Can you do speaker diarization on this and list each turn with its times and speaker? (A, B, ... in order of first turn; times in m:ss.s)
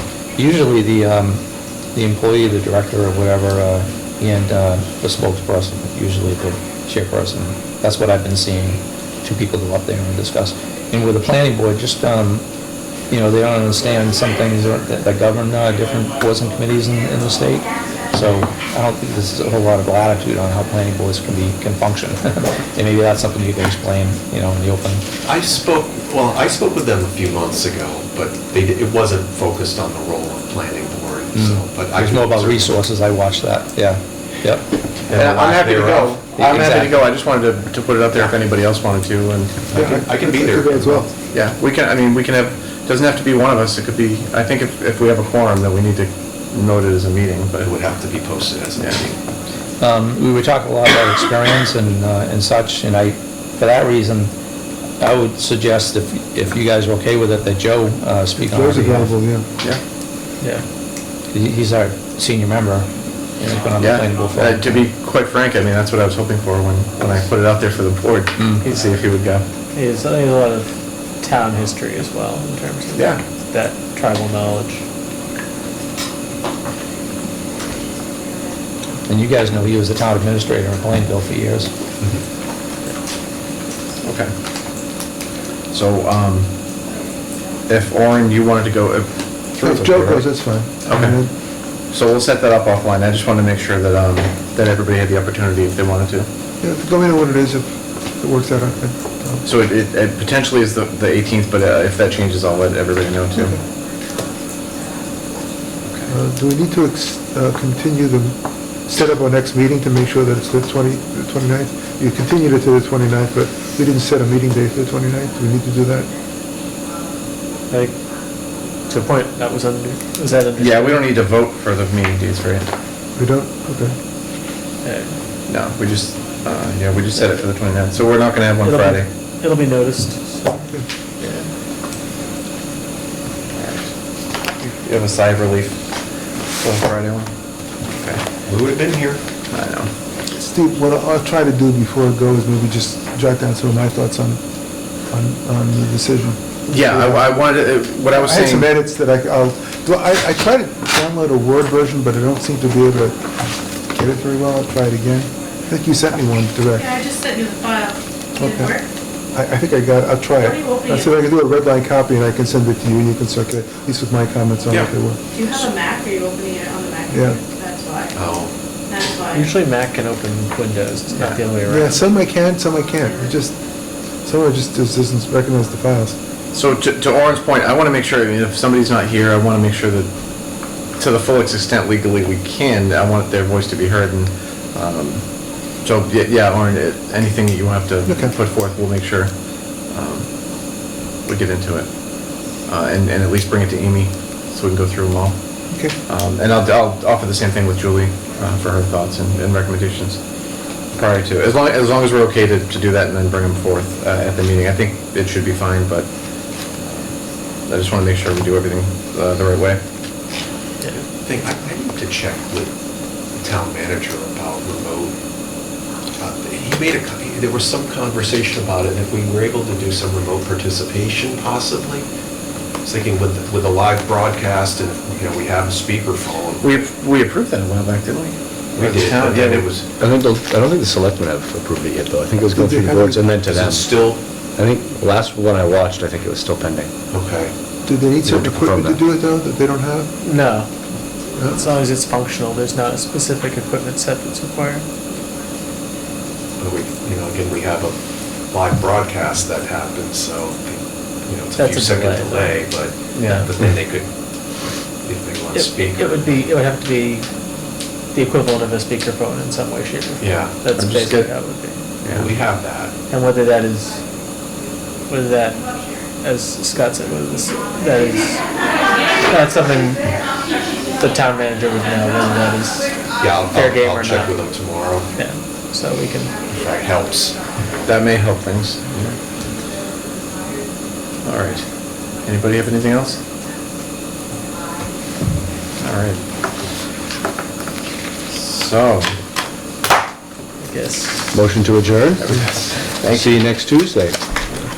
0:00.4-0:01.4 A
0:01.9-0:12.5 A
0:13.1-0:25.0 A
0:25.2-0:32.8 B
0:31.4-0:34.7 A
0:35.1-0:36.2 B
0:35.1-0:39.8 C
0:36.2-0:37.1 A
0:39.7-0:41.1 B
0:39.7-0:41.1 D
0:41.1-0:47.7 C
0:47.6-0:49.2 B
0:49.8-0:54.3 A
0:55.0-0:59.2 A
0:58.5-0:59.5 D
1:00.4-1:00.7 E
1:01.3-1:04.8 A
1:03.8-1:09.5 C
1:08.4-1:08.6 A
1:08.6-1:08.9 E
1:09.7-1:14.8 E
1:13.0-1:13.2 C
1:19.1-1:21.7 A
1:24.0-1:24.3 C
1:25.7-1:26.5 C
1:27.7-1:30.3 C
1:29.6-1:31.3 D
1:30.9-1:36.3 C
1:36.6-1:39.4 D
1:39.4-1:43.6 C
1:45.8-1:46.1 C
1:46.1-1:56.1 D
1:57.7-1:58.0 E
1:58.9-2:01.0 E
2:00.6-2:02.7 C
2:03.2-2:04.0 D
2:04.8-2:05.2 E
2:05.5-2:09.1 C
2:08.6-2:10.6 E
2:10.6-2:10.9 D
2:11.2-2:11.5 E
2:13.5-2:14.0 C
2:14.6-2:15.9 C
2:16.5-2:17.3 C
2:18.0-2:19.2 B
2:19.5-2:19.9 C
2:20.3-2:27.5 D
2:26.7-2:28.7 C
2:28.1-2:37.0 D
2:36.8-2:38.8 F
2:38.4-2:45.2 D
2:40.6-2:41.0 F
2:45.3-2:48.2 F
2:47.1-2:47.4 D
2:48.2-2:48.5 B
2:48.9-2:49.4 F
2:49.3-2:52.0 E
2:51.1-2:51.4 C
2:51.7-2:56.2 D
2:56.5-3:09.3 C
3:08.1-3:08.4 D
3:09.9-3:15.4 C
3:15.7-3:16.0 D
3:16.1-3:20.2 C
3:20.9-3:29.8 C
3:30.8-3:31.1 E
3:31.2-3:32.8 B
3:33.3-3:35.2 B
3:36.2-3:42.1 B
3:42.8-3:46.7 B
3:46.6-3:49.7 C
3:48.7-3:49.9 B
3:49.3-3:56.9 G
3:52.5-3:53.3 D
3:53.3-3:54.2 B
3:57.1-3:57.5 B
3:57.8-4:00.1 D
3:58.2-3:59.0 G
4:00.2-4:00.7 E
4:01.4-4:01.6 D
4:01.4-4:04.9 E
4:06.6-4:08.0 B
4:08.5-4:14.1 B
4:11.6-4:12.6 E
4:13.1-4:13.5 C
4:15.0-4:16.4 B
4:15.5-4:17.3 E
4:18.1-4:21.8 E
4:20.2-4:20.6 B
4:20.7-4:21.3 C
4:22.0-4:22.3 C
4:22.1-4:22.9 B
4:23.1-4:24.0 E
4:25.1-4:28.4 E
4:29.2-4:30.2 E
4:31.0-4:34.4 E
4:33.2-4:35.1 B
4:35.1-4:36.4 E
4:36.5-4:37.4 B
4:37.8-4:39.2 C
4:41.2-4:43.2 C
4:45.8-4:46.2 C
4:48.3-4:49.1 C
4:50.6-4:51.4 E
4:51.3-4:52.4 G
4:52.2-4:53.5 C
4:53.0-4:54.2 G